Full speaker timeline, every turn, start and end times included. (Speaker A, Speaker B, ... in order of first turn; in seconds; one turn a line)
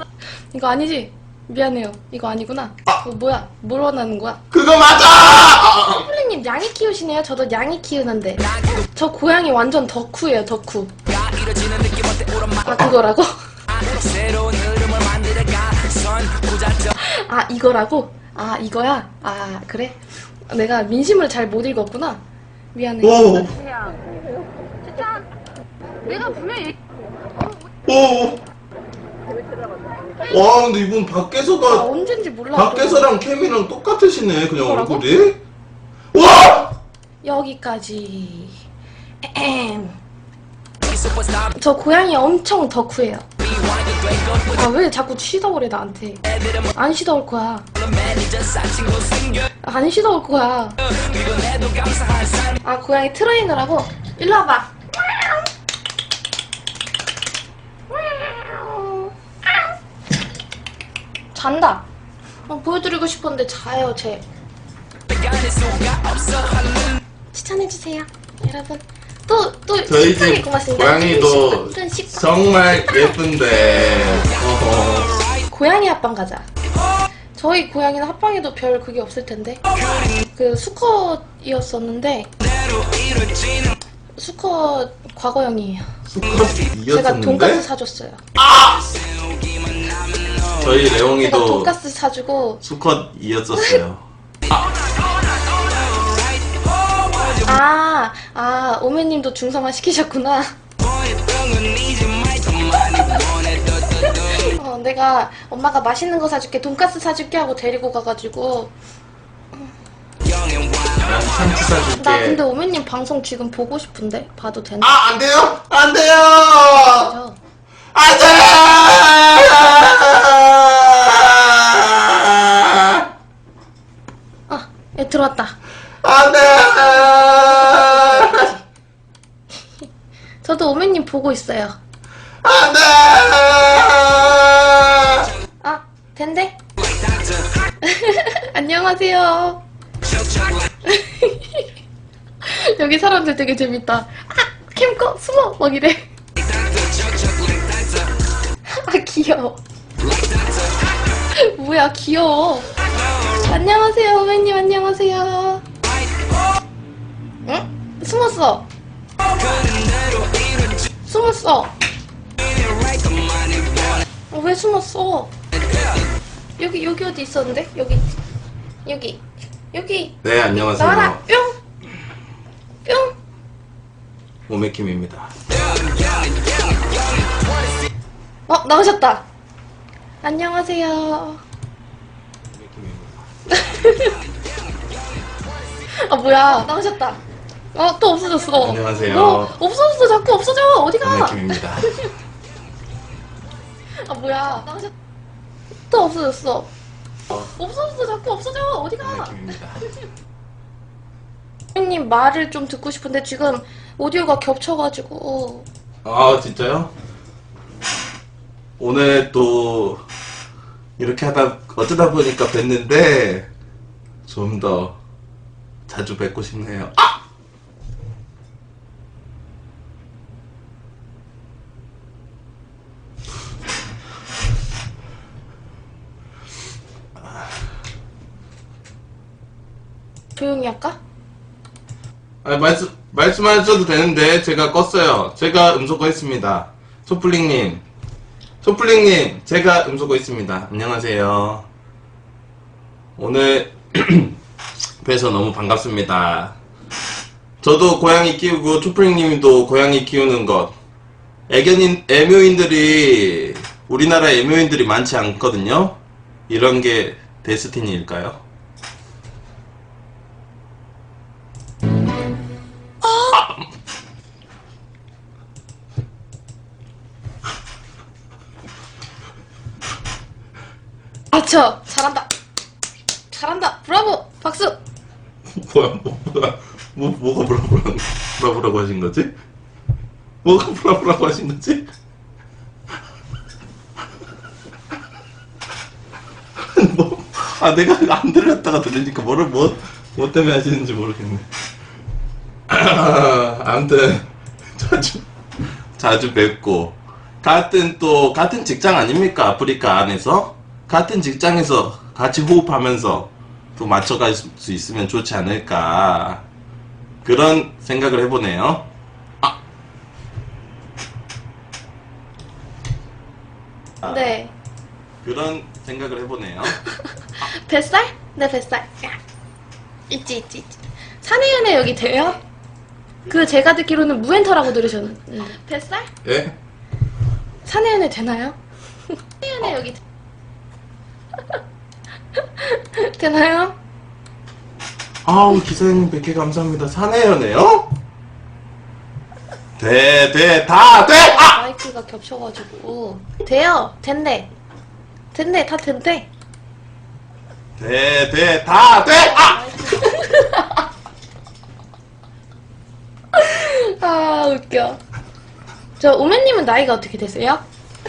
Speaker A: 0.5-4.4
Speaker B: 4.5-6.1
Speaker A: 5.7-8.4
Speaker C: 8.5-8.8
Speaker A: 8.9-10.9
Speaker C: 11.1-12.9
Speaker A: 12.7-13.4
Speaker C: 13.7-16.9
Speaker A: 17.0-22.2
Speaker A: 22.7-23.5
Speaker B: 23.0-23.6
Speaker A: 26.1-26.7
Speaker B: 27.9-28.4
Speaker B: 30.3-31.9
Speaker A: 31.7-33.2
Speaker B: 32.5-35.4
Speaker A: 34.6-35.1
Speaker B: 36.1-36.8
Speaker A: 37.2-38.6
Speaker A: 39.2-40.0
Speaker C: 40.8-41.6
Speaker A: 41.6-43.3
Speaker C: 43.4-44.6
Speaker A: 44.5-46.2
Speaker C: 46.3-46.7
Speaker A: 46.8-47.7
Speaker C: 47.8-49.5
Speaker A: 49.6-50.8
Speaker C: 50.8-52.6
Speaker A: 52.6-55.4
Speaker A: 57.9-59.7
Speaker A: 61.3-61.9
Speaker A: 62.5-64.2
Speaker C: 65.1-67.0
Speaker A: 67.3-73.2
Speaker B: 69.8-75.2
Speaker C: 75.0-75.4
Speaker A: 75.5-76.5
Speaker A: 77.3-79.6
Speaker C: 79.8-80.2
Speaker A: 80.3-82.3
Speaker C: 82.4-83.8
Speaker A: 84.2-85.9
Speaker B: 86.0-87.7
Speaker A: 86.9-88.2
Speaker B: 88.4-88.8
Speaker C: 88.7-90.9
Speaker B: 90.6-91.7
Speaker A: 91.1-92.6
Speaker B: 92.6-94.0
Speaker C: 94.5-97.6
Speaker A: 97.5-100.5
Speaker C: 100.8-104.5
Speaker A: 104.0-108.7
Speaker C: 110.2-111.8
Speaker B: 111.0-112.4
Speaker A: 112.0-115.0
Speaker B: 114.8-117.1
Speaker A: 116.7-117.4
Speaker B: 117.9-123.1
Speaker A: 124.5-125.6
Speaker B: 126.0-128.5
Speaker A: 127.7-128.6
Speaker A: 130.4-131.8
Speaker B: 132.4-135.3
Speaker A: 135.6-136.6
Speaker C: 136.8-137.5
Speaker A: 137.8-139.6
Speaker C: 140.1-140.7
Speaker A: 140.8-141.7
Speaker A: 142.4-146.1
Speaker C: 146.4-148.2
Speaker A: 148.7-149.6
Speaker C: 150.0-150.9
Speaker A: 151.3-152.7
Speaker A: 153.5-155.6
Speaker A: 157.5-158.7
Speaker C: 159.3-160.9
Speaker A: 161.1-161.7
Speaker C: 162.4-164.0
Speaker A: 164.3-165.3
Speaker C: 165.6-166.0
Speaker A: 166.6-168.0
Speaker A: 168.8-171.6
Speaker B: 170.2-171.2
Speaker A: 172.8-173.1
Speaker B: 174.5-175.3
Speaker C: 175.5-177.8
Speaker A: 178.5-179.2
Speaker A: 180.2-181.4
Speaker B: 182.5-183.2
Speaker A: 183.5-184.2
Speaker A: 186.0-187.2
Speaker A: 187.7-192.1
Speaker B: 188.6-189.6
Speaker B: 191.0-191.9
Speaker A: 194.0-194.9
Speaker A: 195.9-196.7
Speaker A: 197.3-199.4
Speaker B: 199.0-199.8
Speaker A: 201.8-205.7
Speaker B: 206.1-206.9
Speaker B: 208.8-210.0
Speaker B: 211.0-213.5
Speaker B: 214.3-215.0
Speaker B: 215.9-217.2
Speaker A: 230.4-231.0
Speaker B: 232.4-237.8
Speaker B: 238.6-241.7
Speaker B: 243.2-244.4
Speaker B: 245.0-246.6
Speaker B: 247.6-250.7
Speaker B: 251.5-256.0
Speaker B: 256.5-258.4
Speaker A: 263.0-263.4
Speaker A: 271.3-272.3
Speaker A: 273.3-274.8
Speaker B: 275.5-279.3
Speaker B: 280.4-281.9
Speaker B: 286.7-291.5
Speaker B: 292.7-295.3
Speaker B: 296.0-306.4
Speaker B: 307.2-308.9
Speaker A: 314.0-314.5
Speaker B: 315.2-316.8
Speaker A: 317.4-319.2
Speaker A: 320.1-322.4
Speaker A: 323.2-326.1
Speaker B: 326.2-326.6
Speaker A: 327.6-328.6
Speaker A: 329.4-330.0
Speaker A: 332.4-333.8
Speaker B: 335.2-337.9
Speaker B: 339.8-341.6
Speaker A: 341.1-344.5
Speaker A: 345.3-346.3
Speaker B: 347.8-349.8
Speaker A: 349.0-350.8
Speaker A: 353.3-355.0
Speaker A: 356.0-357.6